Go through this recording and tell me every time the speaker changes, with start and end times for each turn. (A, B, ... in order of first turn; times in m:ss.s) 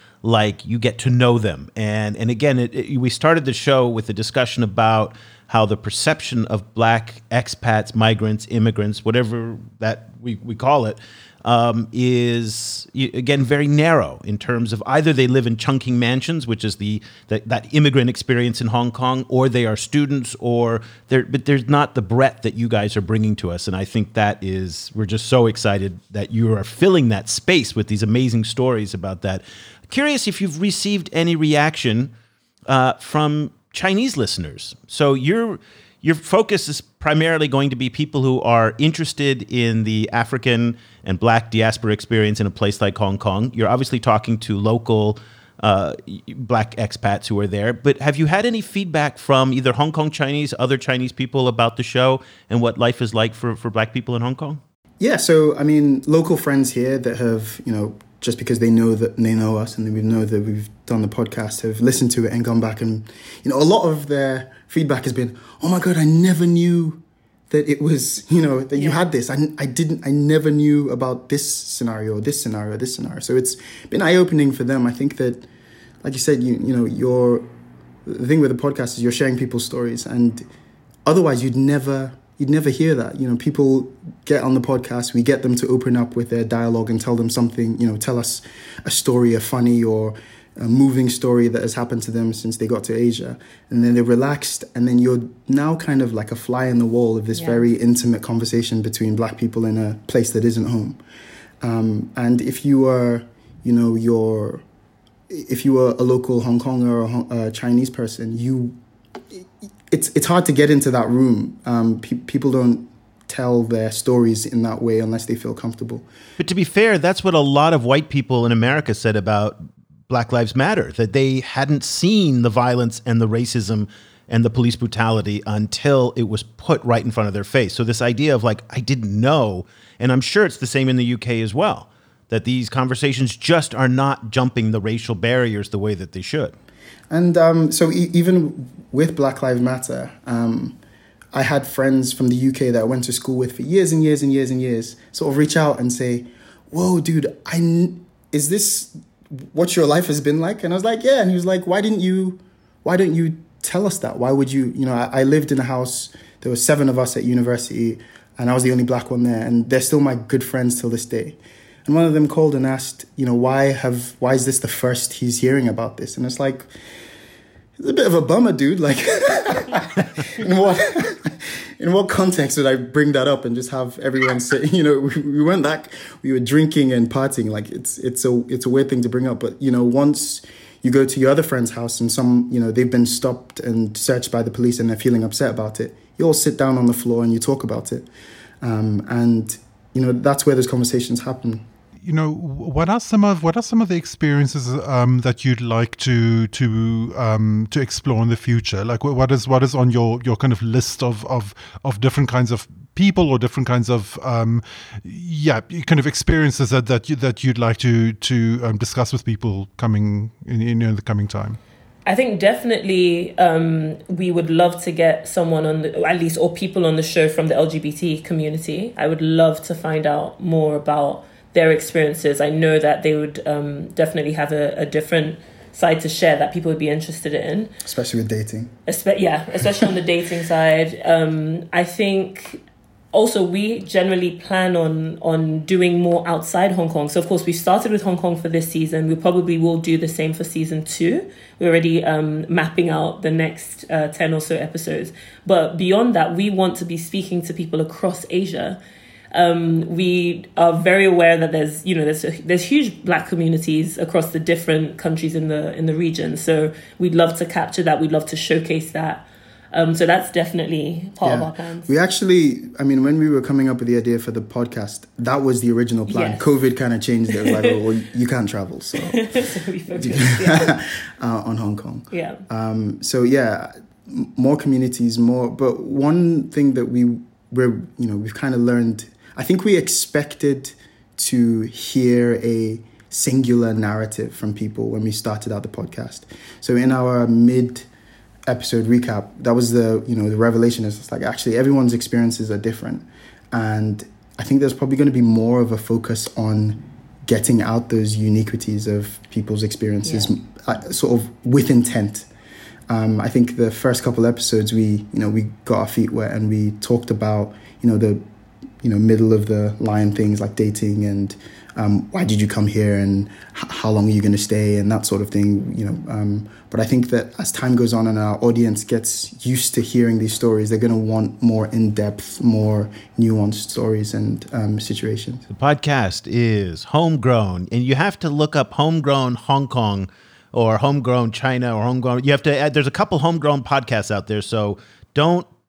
0:00.2-0:32.1 A
0:32.7-0:54.6 A
0:55.0-1:15.5 B
1:08.7-1:09.0 C
1:16.0-1:17.5 B
1:18.0-1:20.5 B
1:21.0-1:41.0 B
1:37.3-1:37.6 C
1:41.6-1:44.6 B
1:45.3-1:48.8 B
1:49.3-1:56.1 B
1:56.4-2:16.5 A
2:17.1-2:20.8 B
2:21.3-2:46.7 B
2:47.8-3:08.1 B
3:08.6-3:11.7 B
3:12.0-3:31.6 D
3:32.0-3:47.7 C
3:47.8-3:48.7 B
3:48.9-3:52.6 C
3:53.1-4:08.8 C
4:09.3-4:21.9 C
4:21.2-4:47.9 B
4:26.1-4:26.4 C
4:27.4-4:27.7 C
4:29.0-4:30.8 C
4:32.1-4:32.4 C
4:48.5-5:02.3 B
5:00.0-5:00.3 C
5:02.9-5:08.2 B
5:08.8-5:25.4 B
5:25.5-5:35.5 A